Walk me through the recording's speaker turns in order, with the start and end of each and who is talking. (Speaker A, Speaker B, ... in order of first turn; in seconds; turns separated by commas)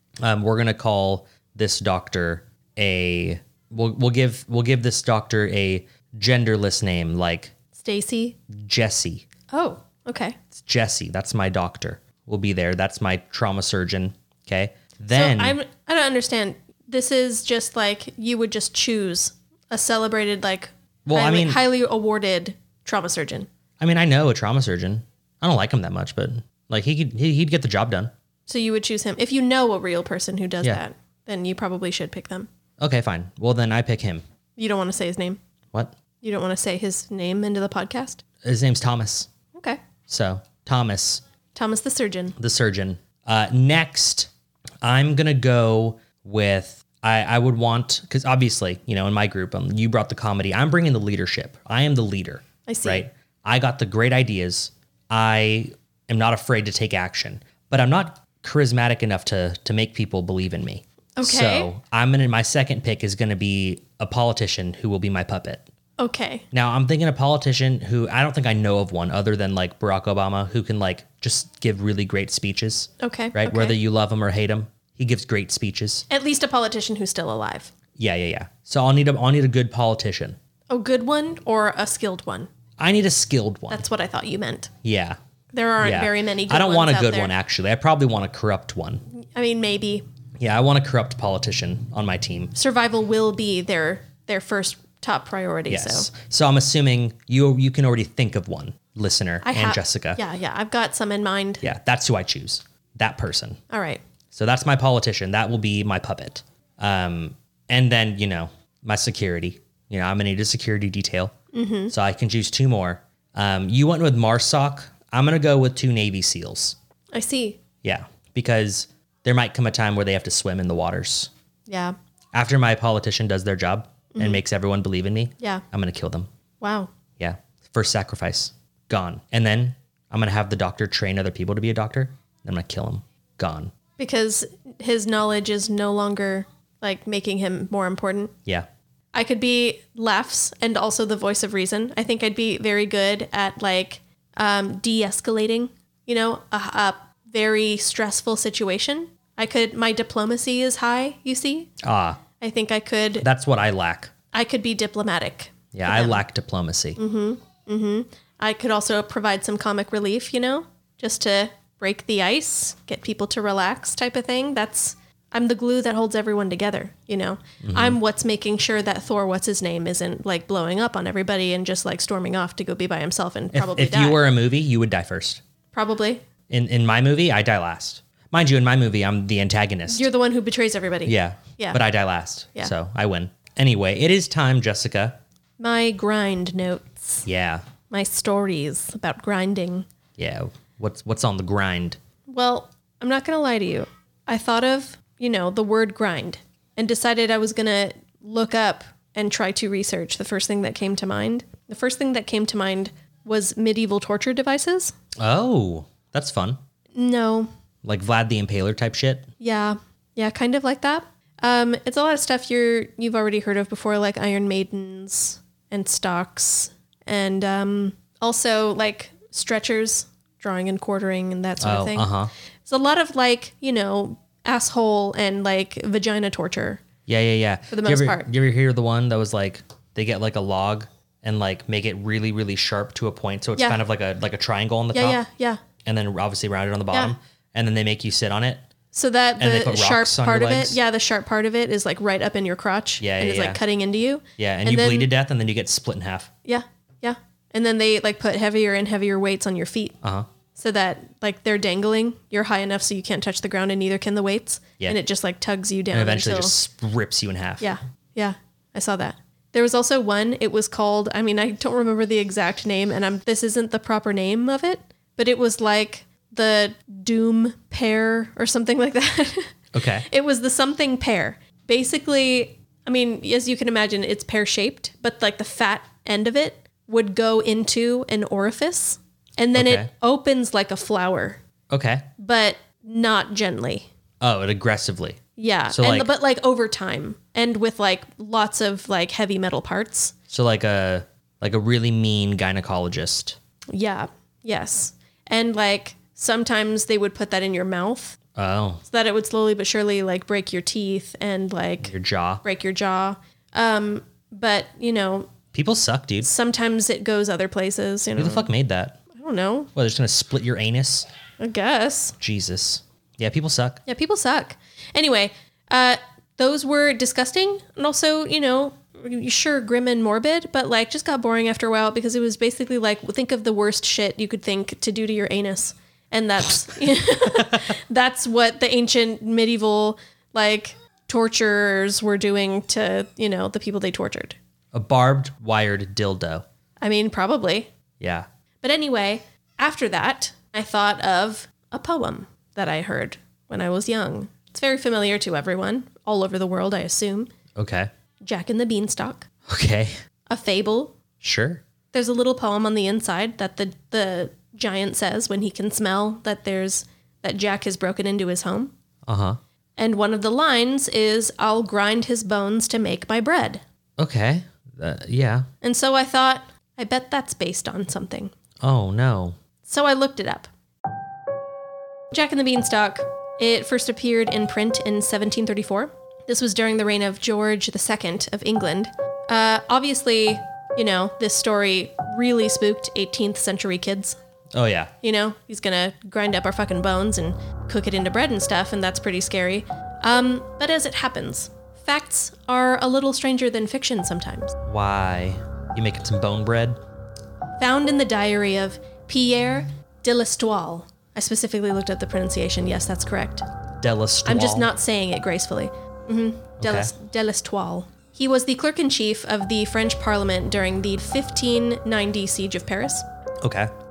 Speaker A: 0.2-7.5, Speaker B: 7.7-8.4, Speaker A: 8.5-9.2, Speaker B: 9.5-10.4, Speaker A: 10.5-15.6, Speaker B: 15.1-23.5, Speaker A: 21.1-21.6, Speaker A: 23.8-28.1, Speaker B: 28.5-32.5, Speaker A: 32.8-34.2, Speaker B: 34.6-35.4, Speaker B: 36.2-38.2, Speaker A: 38.4-39.3, Speaker B: 39.5-39.8, Speaker A: 40.1-41.2, Speaker B: 41.5-42.4, Speaker A: 42.4-44.3, Speaker A: 44.8-65.7, Speaker B: 52.7-53.0, Speaker B: 61.2-61.7, Speaker B: 66.0-66.4, Speaker A: 66.5-76.0, Speaker B: 73.0-73.8, Speaker B: 76.1-77.7, Speaker A: 78.0-80.4, Speaker B: 80.7-82.5, Speaker A: 82.8-83.8, Speaker B: 83.7-84.7, Speaker A: 84.8-85.2, Speaker B: 85.5-87.3, Speaker A: 85.8-89.0, Speaker B: 89.1-90.0, Speaker A: 90.4-92.5, Speaker B: 92.5-96.1, Speaker A: 95.7-100.2, Speaker B: 99.4-101.6, Speaker A: 101.6-103.6, Speaker B: 103.7-104.0, Speaker A: 104.3-111.3, Speaker B: 111.5-111.9, Speaker A: 111.9-116.8, Speaker B: 117.1-117.6, Speaker A: 117.8-121.3, Speaker B: 121.7-122.0, Speaker A: 122.3-126.3, Speaker B: 124.1-124.4, Speaker B: 126.6-126.9, Speaker A: 127.2-133.7, Speaker B: 134.0-138.3, Speaker B: 139.1-151.7, Speaker A: 151.8-152.2, Speaker B: 152.4-153.3, Speaker A: 153.2-154.1, Speaker B: 154.3-156.2, Speaker A: 155.7-157.0, Speaker B: 157.0-174.2, Speaker A: 167.6-168.0, Speaker A: 173.5-175.4, Speaker B: 175.7-176.2, Speaker A: 176.5-180.1, Speaker B: 179.9-181.8, Speaker A: 181.0-185.2, Speaker B: 185.6-187.2, Speaker A: 187.2-187.6, Speaker B: 187.9-189.9, Speaker A: 190.2-192.0, Speaker B: 192.3-204.9, Speaker A: 205.2-206.6, Speaker B: 206.9-207.5, Speaker A: 207.8-209.3, Speaker B: 209.4-222.1, Speaker A: 221.6-222.3, Speaker B: 222.7-226.8, Speaker A: 227.1-235.2, Speaker B: 227.7-228.3, Speaker B: 234.9-235.6, Speaker A: 235.8-238.7, Speaker B: 238.9-245.1, Speaker A: 239.4-240.8, Speaker A: 243.0-243.6, Speaker A: 244.4-246.3, Speaker B: 246.4-250.0, Speaker A: 250.0-250.3, Speaker B: 250.5-256.5, Speaker A: 255.9-257.7, Speaker B: 257.6-281.4, Speaker A: 269.7-270.1, Speaker A: 279.5-279.9, Speaker A: 281.7-282.1, Speaker B: 282.2-283.9, Speaker A: 284.2-286.1, Speaker B: 285.4-290.1, Speaker A: 290.3-293.4, Speaker B: 293.7-298.2, Speaker A: 298.4-298.8, Speaker B: 298.9-301.9, Speaker A: 301.8-302.4, Speaker B: 302.4-305.3, Speaker A: 305.5-306.3, Speaker B: 306.2-308.5, Speaker A: 308.1-309.0, Speaker B: 309.1-309.7, Speaker A: 309.7-311.1, Speaker B: 311.4-312.2, Speaker A: 312.2-313.8, Speaker B: 313.9-334.4, Speaker A: 327.1-327.6, Speaker A: 334.7-336.4, Speaker B: 336.8-337.7, Speaker A: 338.0-338.2, Speaker B: 338.6-347.3, Speaker A: 347.5-347.9, Speaker B: 348.2-349.3, Speaker A: 349.5-349.9, Speaker B: 350.3-351.0, Speaker A: 351.2-351.6, Speaker B: 351.9-358.7, Speaker A: 359.1-359.4, Speaker B: 359.8-363.6, Speaker A: 364.0-365.5, Speaker B: 365.6-368.3, Speaker A: 368.6-369.4, Speaker B: 369.6-370.5, Speaker B: 372.1-384.2, Speaker A: 384.5-384.9, Speaker B: 385.0-394.6, Speaker A: 394.6-396.8, Speaker B: 397.6-403.5, Speaker A: 403.8-404.7, Speaker B: 404.2-413.1, Speaker A: 406.6-406.9, Speaker A: 413.4-413.7